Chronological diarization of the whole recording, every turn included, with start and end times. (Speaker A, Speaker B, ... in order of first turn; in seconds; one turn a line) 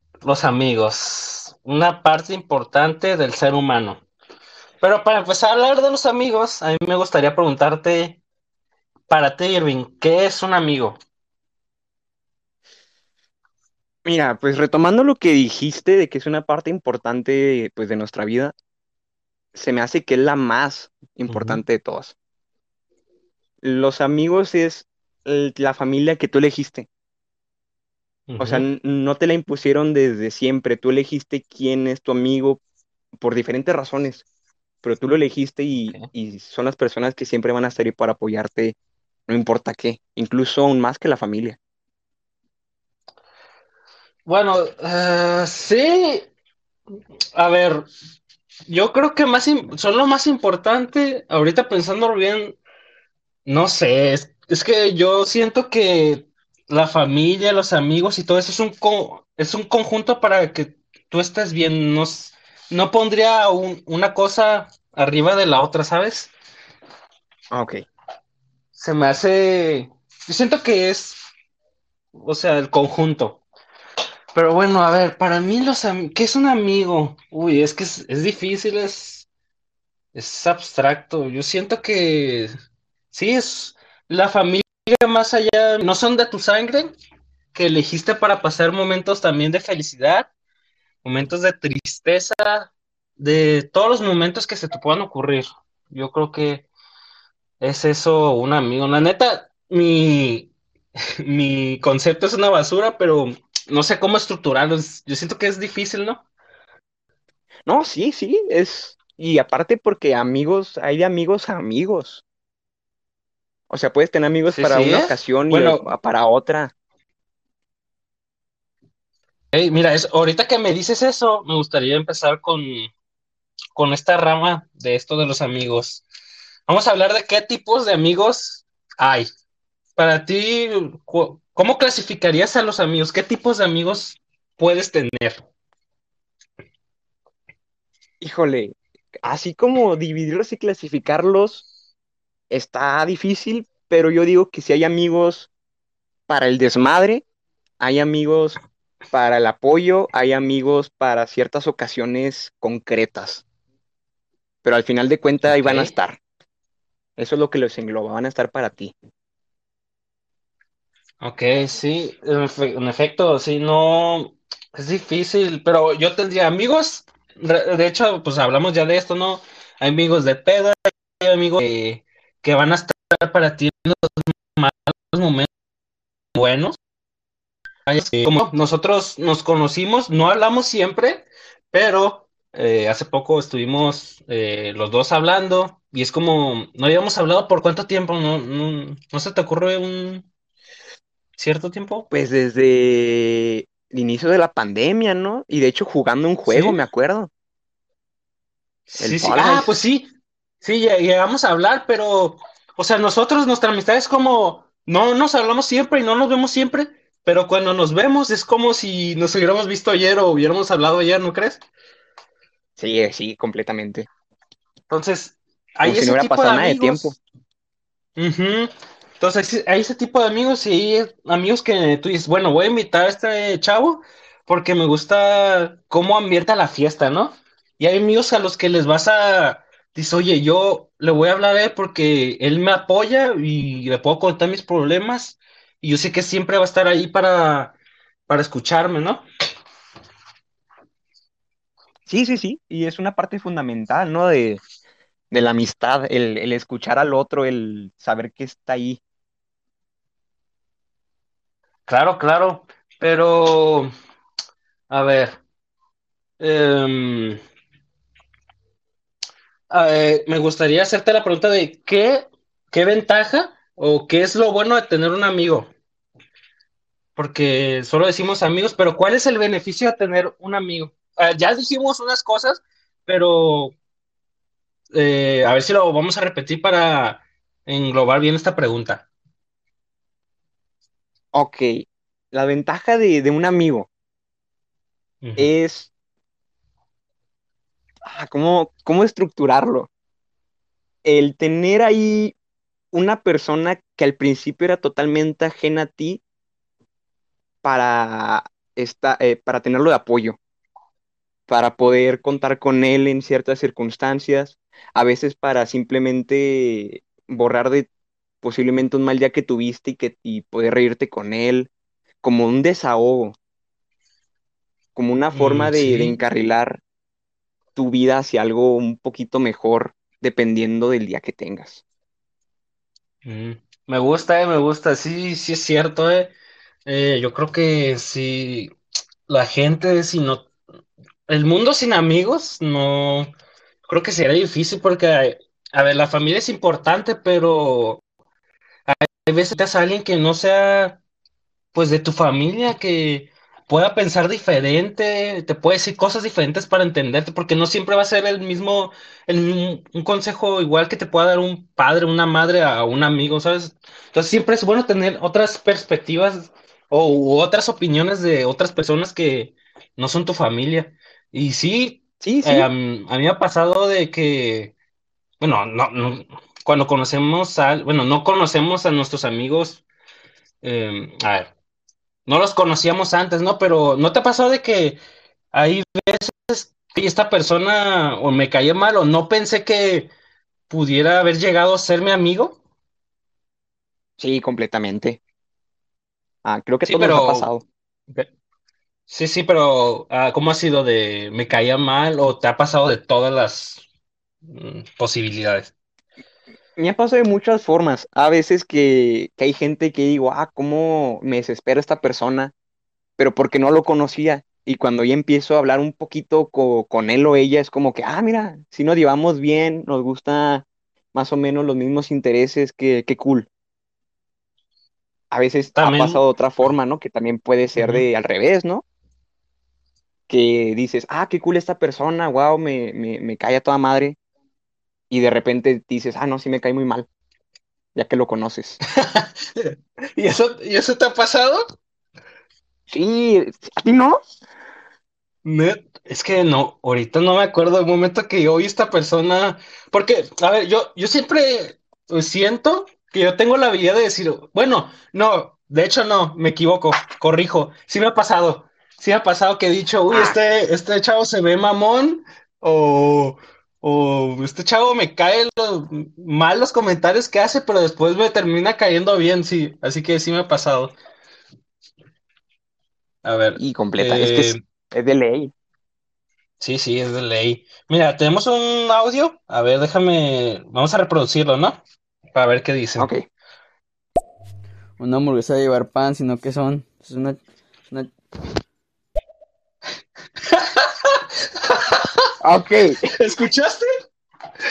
Speaker A: 0.2-4.0
Speaker A: 4.8-8.2
Speaker A: 9.1-11.0
Speaker B: 14.0-18.5
Speaker B: 19.5-22.1
Speaker A: 21.3-21.6
Speaker B: 23.6-26.9
Speaker A: 28.3-28.6
Speaker B: 28.4-32.6
Speaker B: 33.2-34.2
Speaker B: 34.8-38.8
Speaker B: 39.3-41.6
Speaker A: 44.2-46.3
Speaker A: 47.3-47.9
Speaker A: 48.7-52.6
Speaker A: 53.5-66.3
Speaker B: 67.5-67.8
Speaker A: 68.7-71.2
Speaker A: 72.1-73.4
Speaker A: 74.3-79.3
Speaker A: 80.1-82.5
Speaker A: 83.1-86.9
Speaker A: 87.5-90.3
Speaker A: 91.0-96.7
Speaker A: 97.6-100.5
Speaker A: 101.2-106.2
Speaker B: 107.7-112.2
Speaker B: 113.7-116.7
Speaker A: 114.5-115.9
Speaker A: 119.5-122.9
Speaker A: 123.8-126.0
Speaker A: 126.7-129.3
Speaker A: 129.9-135.4
Speaker B: 138.2-141.6
Speaker B: 142.5-145.5
Speaker B: 146.3-147.2
Speaker B: 147.8-148.6
Speaker B: 149.1-153.4
Speaker B: 154.6-156.2
Speaker A: 155.5-155.9
Speaker B: 157.2-158.9
Speaker A: 161.2-175.5
Speaker A: 176.3-176.8
Speaker A: 177.8-190.3
Speaker A: 191.4-192.1
Speaker B: 192.1-197.3
Speaker A: 196.4-196.8
Speaker A: 198.9-200.1
Speaker B: 199.0-199.7
Speaker A: 200.6-211.6
Speaker B: 212.8-214.1
Speaker A: 214.9-217.1
Speaker B: 215.8-217.2
Speaker A: 218.2-237.8
Speaker A: 238.3-239.2
Speaker B: 242.1-244.6
Speaker B: 245.3-249.0
Speaker A: 251.9-253.9
Speaker A: 254.9-255.4
Speaker A: 256.4-257.4
Speaker A: 259.7-265.7
Speaker A: 267.1-273.7
Speaker A: 274.9-279.1
Speaker B: 281.3-283.9
Speaker A: 285.2-285.5
Speaker B: 285.4-285.9
Speaker B: 288.0-289.9
Speaker B: 291.0-292.4
Speaker B: 292.9-296.2
Speaker B: 297.6-300.4
Speaker B: 301.5-307.9
Speaker B: 308.4-311.7
Speaker B: 312.2-313.4
Speaker B: 314.9-316.8
Speaker A: 315.3-316.1
Speaker B: 317.7-321.8
Speaker A: 323.2-326.3
Speaker A: 326.9-328.7
Speaker A: 329.3-330.5
Speaker A: 331.3-333.3
Speaker A: 333.9-338.0
Speaker A: 338.9-341.0
Speaker A: 341.7-364.7
Speaker B: 362.2-362.7
Speaker A: 365.4-369.8
Speaker A: 370.6-371.5
Speaker A: 372.2-375.0
Speaker A: 375.5-380.1
Speaker A: 380.7-382.6
Speaker B: 384.2-385.2
Speaker B: 386.4-387.6
Speaker A: 386.8-387.5
Speaker A: 389.1-393.8
Speaker A: 394.4-395.7
Speaker B: 396.8-402.5
Speaker B: 403.2-413.5
Speaker B: 415.3-418.8
Speaker A: 415.7-416.2
Speaker A: 417.8-418.1
Speaker B: 420.3-424.2
Speaker B: 425.1-427.1
Speaker B: 427.9-428.8
Speaker A: 428.9-431.6
Speaker B: 432.9-434.2
Speaker A: 435.4-460.9
Speaker B: 450.1-450.4
Speaker A: 463.2-464.6
Speaker B: 463.6-465.5
Speaker A: 466.6-471.8
Speaker A: 472.3-473.1
Speaker B: 473.0-473.2
Speaker C: 475.0-478.1
Speaker A: 480.5-482.2
Speaker B: 482.4-483.1
Speaker A: 483.1-483.9